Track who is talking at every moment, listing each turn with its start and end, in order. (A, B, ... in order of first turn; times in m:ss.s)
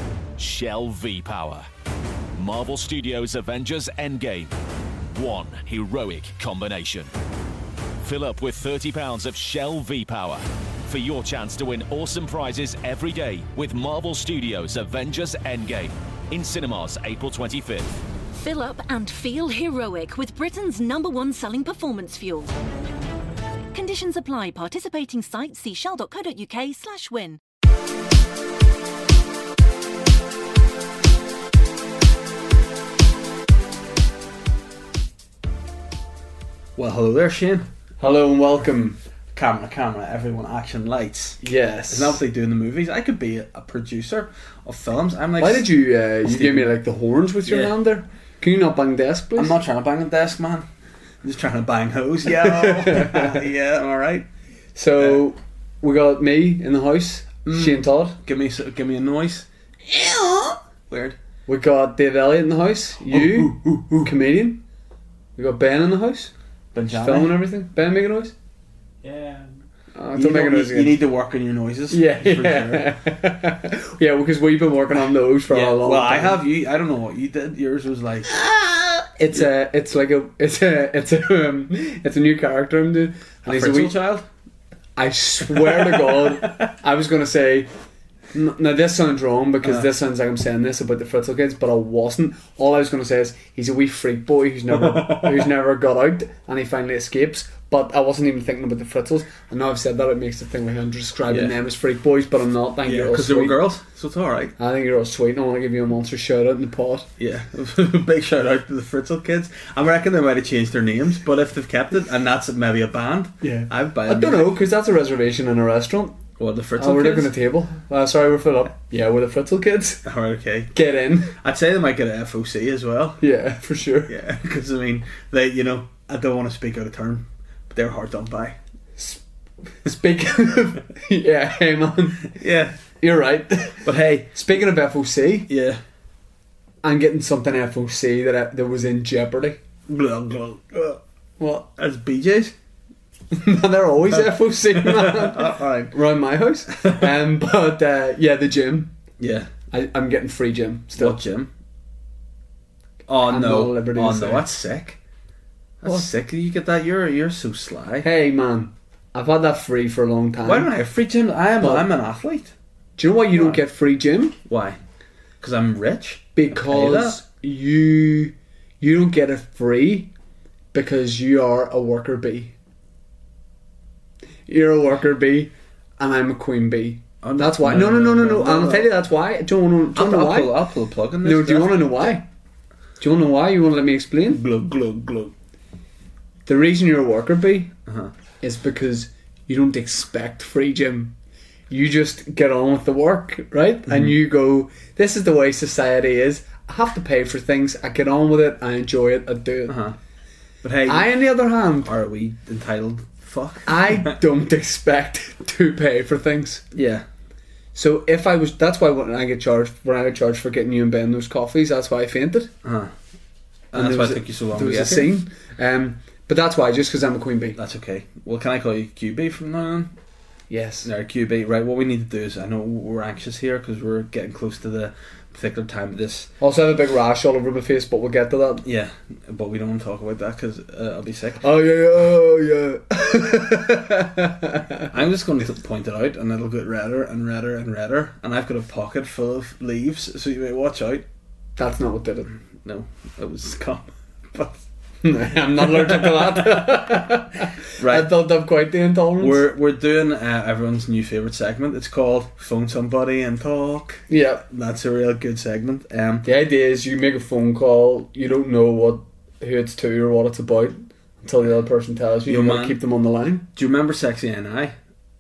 0:00.4-0:01.7 A
0:02.4-0:04.5 A
0:05.1-0:07.1 A
0:08.0-0:18.0 A
0:18.4-0:22.5 B
0:23.7-0:27.4 B
0:36.8-0:37.7 C
0:38.0-0:39.0 D
0:39.3-0:45.7 C
0:41.4-0:42.2 D
0:45.4-0:49.6 D
0:46.2-0:46.7 C
0:47.5-0:47.8 C
0:49.4-0:50.7 C
0:51.2-0:54.3 C
0:52.3-0:53.4 D
0:54.8-0:58.2 D
0:57.5-1:01.2 C
1:01.5-1:04.6 D
1:03.1-1:04.1 C
1:05.4-1:06.3 D
1:06.7-1:07.4 C
1:06.9-1:08.4 D
1:09.0-1:09.5 C
1:10.0-1:11.0 D
1:10.2-1:12.9 C
1:11.9-1:16.4 D
1:15.5-1:18.3 C
1:18.3-1:24.0 D
1:23.5-1:24.3 C
1:25.0-1:27.7 D
1:25.5-1:26.6 C
1:28.3-1:43.6 D
1:34.7-1:35.5 C
1:41.3-1:41.5 C
1:42.8-1:44.6 C
1:44.6-1:47.1 D
1:47.2-1:54.6 C
1:53.4-1:56.2 D
1:56.4-1:57.3 C
1:56.8-2:00.1 D
2:00.0-2:00.7 C
2:00.7-2:01.4 D
2:01.4-2:03.2 C
2:03.2-2:04.1 D
2:04.1-2:08.6 C
2:09.0-2:09.2 D
2:09.7-2:12.4 D
2:12.3-2:12.8 C
2:13.0-2:15.5 D
2:13.8-2:14.4 C
2:15.5-2:15.8 C
2:16.8-2:19.6 D
2:19.9-2:21.0 C
2:21.4-2:21.7 D
2:21.8-2:22.6 C
2:23.3-2:28.9 D
2:24.1-2:26.0 C
2:29.2-2:29.5 C
2:29.7-2:31.2 D
2:31.0-2:31.5 C
2:33.1-2:35.0 C
2:33.3-2:34.5 D
2:35.8-2:38.1 C
2:38.0-2:40.7 D
2:40.4-2:42.5 C
2:41.6-2:41.9 D
2:43.0-2:44.4 D
2:43.4-2:43.6 C
2:44.5-2:44.8 C
2:45.4-2:47.2 C
2:46.4-2:50.1 D
2:50.7-2:52.6 D
2:54.5-3:00.6 D
2:57.2-2:58.9 C
3:00.0-3:02.1 C
3:01.2-3:02.3 D
3:03.0-3:04.4 D
3:04.3-3:05.3 C
3:06.5-3:07.7 D
3:07.9-3:08.1 C
3:08.4-3:11.2 D
3:11.7-3:19.8 D
3:19.7-3:20.0 C
3:20.6-3:21.2 C
3:20.9-3:21.9 D
3:21.8-3:24.2 C
3:23.7-3:26.6 D
3:26.7-3:27.1 C
3:27.8-3:32.5 D
3:32.6-3:32.9 C
3:33.7-3:35.1 C
3:33.7-3:37.6 D
3:37.6-3:39.9 C
3:40.5-3:40.9 D
3:40.8-3:46.3 C
3:46.4-3:48.6 D
3:48.6-3:51.4 C
3:51.4-3:54.9 D
3:54.9-4:01.1 C
4:01.6-4:02.4 D
4:02.6-4:04.6 C
4:05.0-4:09.4 D
4:05.6-4:06.8 C
4:07.8-4:08.1 C
4:09.2-4:16.3 C
4:14.1-4:14.4 D
4:16.2-4:23.5 D
4:22.3-4:22.8 C
4:23.6-4:24.8 C